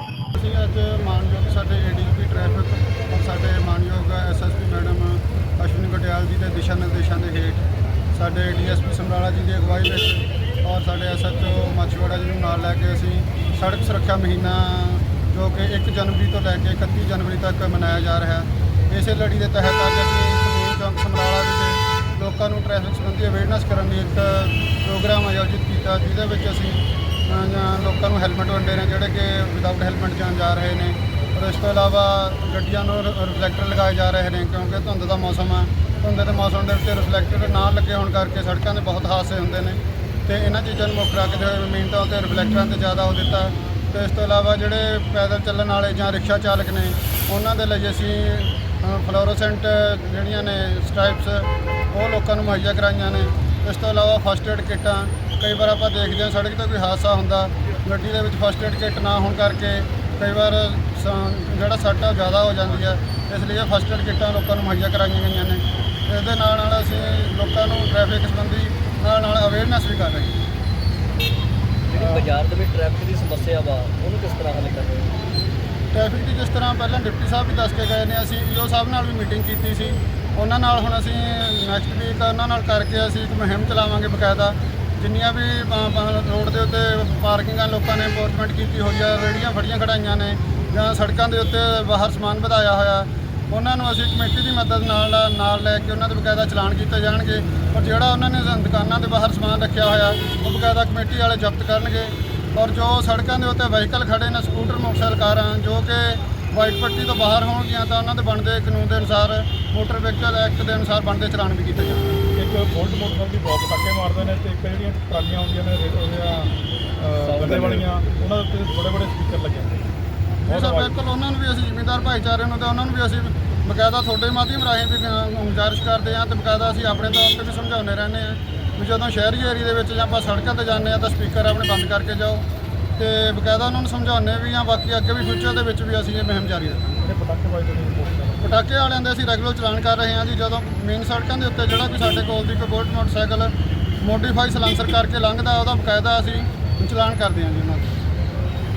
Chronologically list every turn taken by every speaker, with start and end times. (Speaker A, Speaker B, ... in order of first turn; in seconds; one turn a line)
Speaker A: 0.3-70.4
Speaker B: 71.9-75.1
Speaker A: 72.0-72.2
Speaker A: 75.9-112.2
Speaker C: 112.3-119.8
Speaker B: 117.2-117.9
Speaker A: 120.5-132.4
Speaker C: 120.5-120.9
Speaker A: 133.0-137.0
Speaker C: 137.0-138.5
Speaker A: 138.4-147.8